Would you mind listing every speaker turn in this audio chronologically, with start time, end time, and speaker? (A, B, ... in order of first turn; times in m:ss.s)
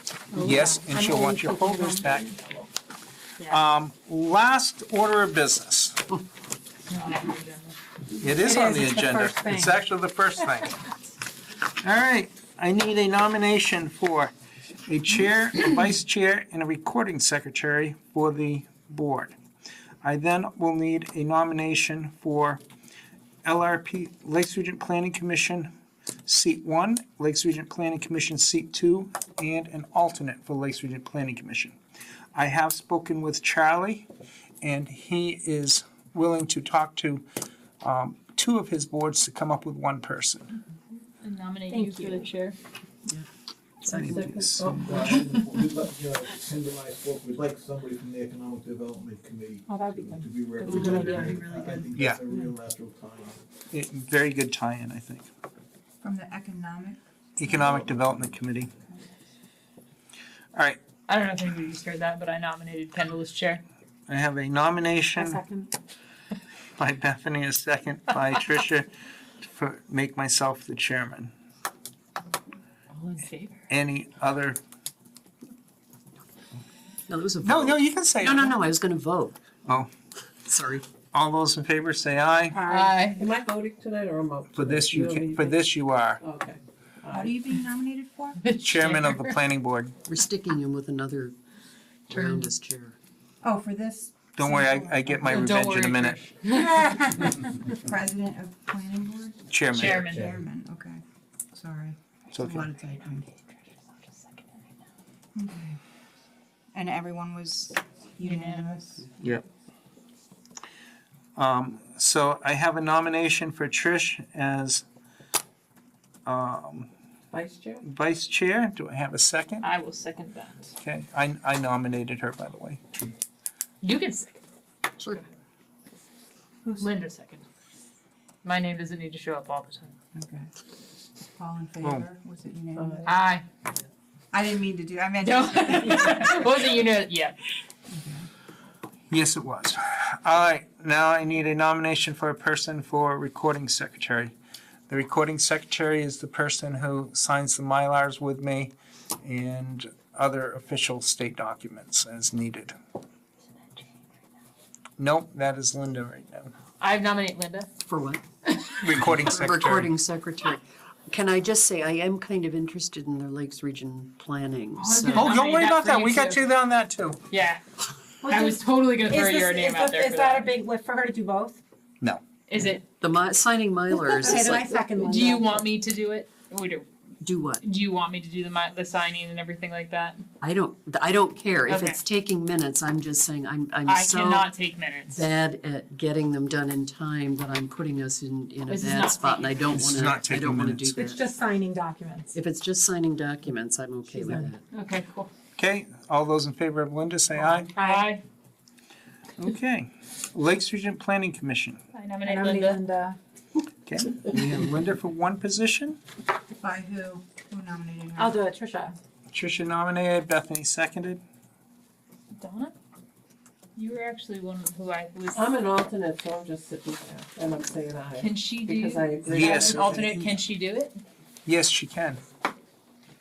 0:00.3-0:02.6 A
0:00.4-0:02.3 B
0:03.5-0:06.0 B
0:06.9-0:07.8 C
0:08.2-0:10.8 B
0:08.4-0:09.8 A
0:11.8-0:14.3 B
0:14.9-0:19.4 B
0:20.0-0:22.6 B
0:23.4-0:25.7 B
0:26.3-0:31.8 B
0:32.4-0:34.1 B
0:34.6-0:37.2 B
0:37.8-0:40.5 B
0:41.2-0:42.5 C
0:41.7-0:42.3 A
0:43.8-0:44.2 D
0:43.9-0:44.8 B
0:43.9-0:45.5 E
0:44.7-0:53.4 F
0:49.7-0:51.8 A
0:50.6-0:51.5 C
0:52.0-0:52.2 B
0:53.7-0:55.3 B
0:56.0-0:57.9 G
0:57.4-0:58.7 B
0:57.8-0:58.4 F
1:00.5-1:00.8 B
1:01.1-1:03.6 C
1:04.1-1:05.4 B
1:05.2-1:05.7 A
1:06.8-1:08.9 B
1:09.4-1:11.3 B
1:12.9-1:13.6 C
1:13.7-1:14.6 B
1:17.1-1:19.4 D
1:17.4-1:18.6 B
1:20.5-1:20.8 D
1:21.1-1:22.6 B
1:22.6-1:23.2 C
1:23.2-1:27.3 E
1:24.5-1:26.2 B
1:27.1-1:28.4 G
1:28.4-1:29.3 C
1:28.6-1:30.0 B
1:30.1-1:31.4 D
1:32.1-1:33.0 D
1:32.1-1:32.5 C
1:33.4-1:35.6 G
1:34.4-1:36.2 B
1:35.2-1:37.2 C
1:36.5-1:41.0 G
1:39.5-1:40.2 B
1:39.7-1:40.3 C
1:41.5-1:43.3 G
1:42.3-1:42.7 B
1:45.4-1:45.8 G
1:46.7-1:49.0 G
1:48.2-1:48.7 C
1:51.4-1:54.8 B
1:56.3-1:56.9 B
1:57.3-1:57.8 E
1:57.8-1:59.7 B
1:59.6-2:00.7 C
2:00.8-2:02.8 B
2:03.8-2:04.4 C
2:06.8-2:07.4 C
2:08.4-2:09.9 C
2:10.2-2:10.5 G
2:11.3-2:13.1 G
2:12.8-2:13.1 E
2:13.1-2:13.4 C
2:14.3-2:16.5 G
2:15.2-2:17.4 C
2:17.9-2:18.3 G
2:19.1-2:24.3 B
2:24.9-2:32.8 B
2:35.0-2:36.5 B
2:36.8-2:37.7 C
2:37.8-2:38.2 D
2:38.5-2:38.8 C
2:38.8-2:39.9 B
2:39.2-2:45.2 D
2:44.8-2:46.4 C
2:45.1-2:47.2 B
2:47.3-2:47.6 C
2:48.2-2:50.5 C
2:49.0-2:51.6 A
2:52.5-2:52.9 C
2:52.9-2:54.6 D
2:54.2-2:55.1 G
2:54.5-2:55.6 A
2:55.0-2:56.9 C
2:57.2-2:57.6 D
2:57.6-3:00.2 C
3:00.4-3:04.5 D
3:01.7-3:02.0 C
3:03.9-3:05.3 C
3:05.1-3:11.2 D
3:08.7-3:09.8 C
3:09.7-3:11.0 B
3:11.0-3:12.4 A
3:12.3-3:14.6 D
3:14.7-3:15.3 C
3:15.6-3:17.7 B
3:17.8-3:18.1 A
3:17.8-3:18.2 C
3:19.4-3:21.8 B
3:21.9-3:22.8 C
3:22.2-3:23.2 A
3:23.9-3:26.0 B
3:26.6-3:28.4 G
3:28.2-3:29.0 A
3:29.3-3:31.2 B
3:32.3-3:32.7 C
3:33.8-3:35.5 C
3:35.3-3:40.2 E
3:38.2-3:41.0 C
3:39.3-3:40.4 B
3:41.5-3:42.2 B